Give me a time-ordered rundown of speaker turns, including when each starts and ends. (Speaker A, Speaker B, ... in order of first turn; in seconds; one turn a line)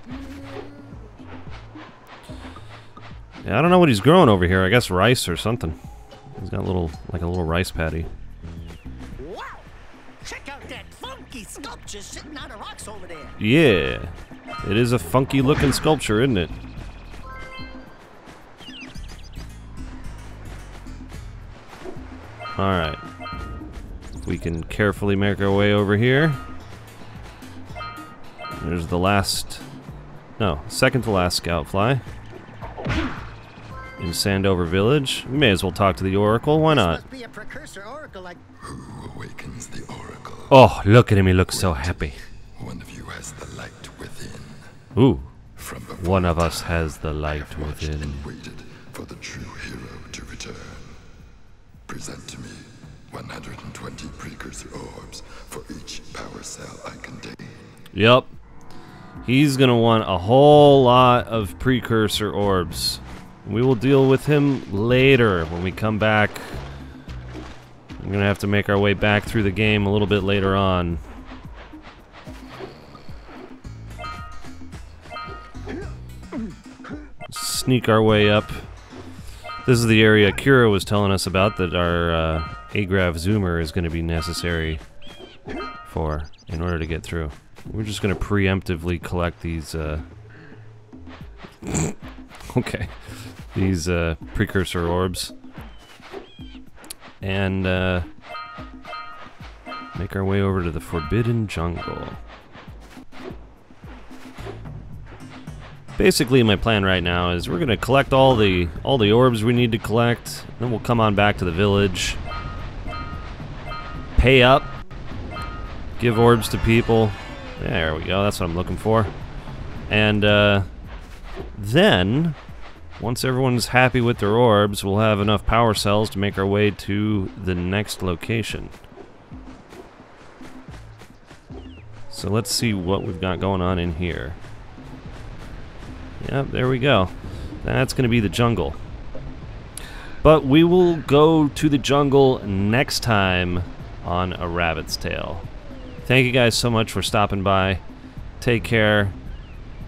Speaker A: 3.4-5.8
Speaker A: 6.3-8.1
Speaker B: 9.2-9.7
Speaker B: 10.2-13.4
Speaker A: 13.4-16.5
Speaker A: 22.6-23.0
Speaker A: 24.2-26.4
Speaker A: 28.6-29.6
Speaker A: 30.4-32.0
Speaker A: 34.0-37.0
Speaker B: 36.6-38.4
Speaker C: 38.6-40.7
Speaker A: 40.5-42.2
Speaker C: 41.5-44.7
Speaker A: 44.9-45.3
Speaker C: 45.5-51.0
Speaker A: 46.0-48.3
Speaker C: 51.9-57.7
Speaker A: 57.9-58.3
Speaker A: 59.2-66.6
Speaker A: 68.0-71.0
Speaker A: 77.3-78.7
Speaker A: 79.6-84.8
Speaker A: 85.8-90.0
Speaker A: 91.6-92.0
Speaker A: 92.5-95.3
Speaker A: 97.2-98.0
Speaker A: 99.9-102.2
Speaker A: 106.0-112.2
Speaker A: 114.2-114.7
Speaker A: 116.0-119.1
Speaker A: 119.9-120.7
Speaker A: 121.5-122.4
Speaker A: 123.0-128.8
Speaker A: 132.1-134.4
Speaker A: 136.2-138.8
Speaker A: 140.2-145.5
Speaker A: 146.0-147.8
Speaker A: 148.4-149.2